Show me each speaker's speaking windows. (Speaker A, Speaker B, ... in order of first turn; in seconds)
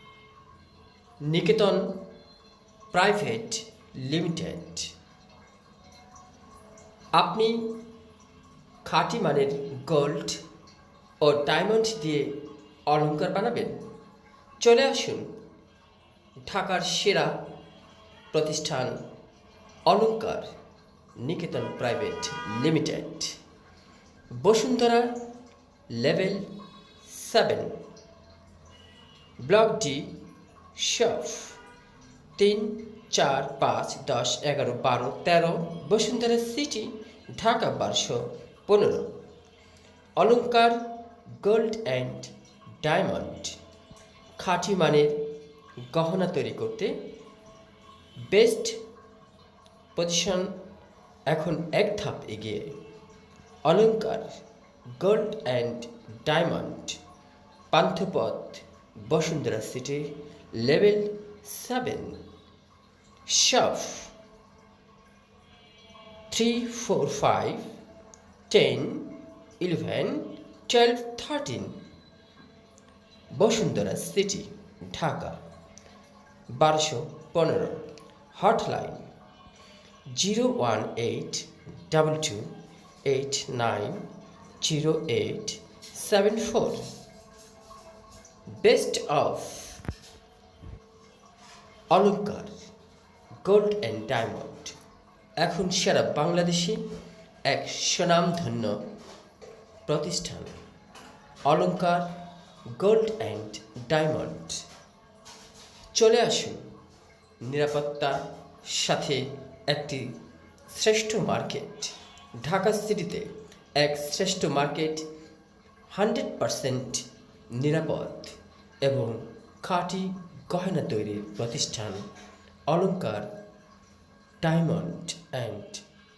Speaker A: 1.2-2.0, 2.9-4.9, 7.2-7.7, 8.8-10.4, 11.2-12.3, 12.9-13.8, 14.6-15.3, 16.4-17.3, 18.3-19.0, 19.9-20.5, 21.2-23.4, 24.3-25.1, 25.9-26.5, 27.0-27.7, 29.4-30.1, 30.7-31.6, 32.4-39.1, 40.2-43.5, 44.4-45.2, 45.9-47.0, 48.2-48.8, 49.9-50.5, 51.3-52.8, 53.6-54.3, 54.9-57.0, 57.7-62.2, 63.2-64.1, 66.3-67.7, 68.5-71.8, 73.3-75.4, 76.5-79.1, 80.1-82.5, 83.0-84.0, 84.6-86.9, 88.6-89.8, 91.9-92.5, 93.4-94.8, 95.4-96.8, 97.5-98.8, 99.9-100.5, 101.5-102.1, 102.7-104.7, 105.9-106.6, 107.4-110.2, 110.7-115.0, 115.9-122.1, 122.7-123.3, 124.4-125.8